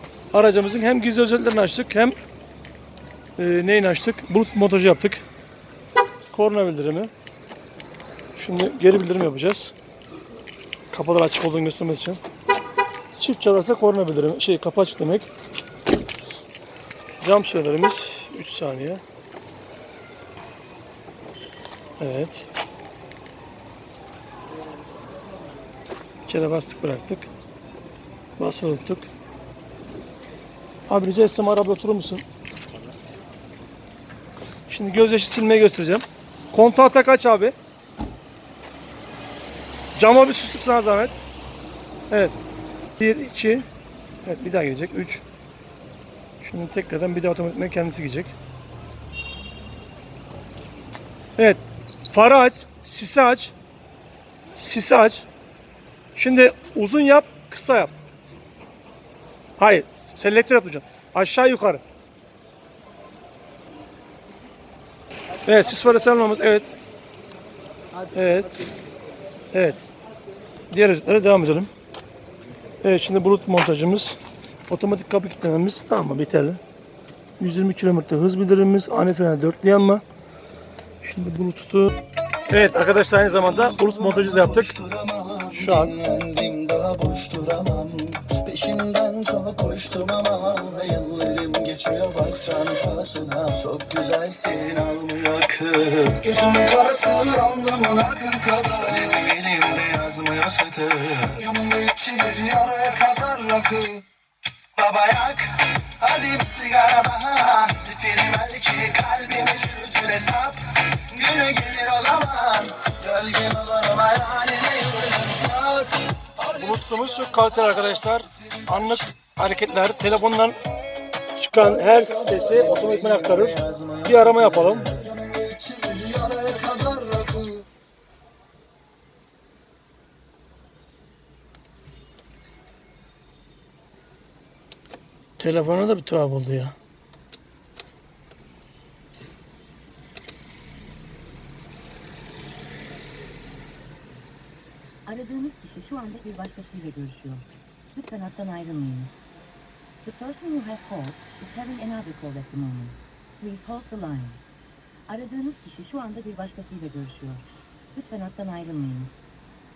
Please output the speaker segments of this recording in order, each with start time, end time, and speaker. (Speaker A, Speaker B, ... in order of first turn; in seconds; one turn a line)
Speaker A: 0.3-2.1
Speaker A: 3.4-5.2
Speaker A: 6.3-7.1
Speaker A: 8.3-9.7
Speaker A: 10.9-12.2
Speaker A: 13.2-15.3
Speaker A: 17.2-19.0
Speaker A: 22.0-22.5
Speaker A: 26.2-27.3
Speaker A: 28.4-29.1
Speaker A: 30.9-32.2
Speaker A: 34.7-37.5
Speaker A: 39.9-41.2
Speaker A: 42.1-42.4
Speaker A: 43.0-43.7
Speaker A: 44.2-45.2
Speaker A: 46.4-48.3
Speaker A: 51.4-53.5
Speaker A: 54.5-55.3
Speaker A: 56.1-57.9
Speaker A: 59.6-61.8
Speaker A: 65.4-66.7
Speaker A: 68.1-68.6
Speaker A: 69.5-69.9
Speaker A: 70.7-71.7
Speaker A: 72.8-76.6
Speaker A: 77.4-80.0
Speaker A: 81.0-81.9
Speaker A: 82.5-84.8
Speaker B: 83.2-104.0
Speaker A: 85.5-85.9
Speaker B: 104.8-117.8
Speaker A: 116.5-120.5
Speaker A: 121.3-123.5
Speaker B: 121.6-127.6
Speaker A: 124.0-124.9
Speaker A: 135.4-136.7
Speaker C: 145.1-149.1
Speaker C: 150.0-154.4
Speaker C: 155.1-159.1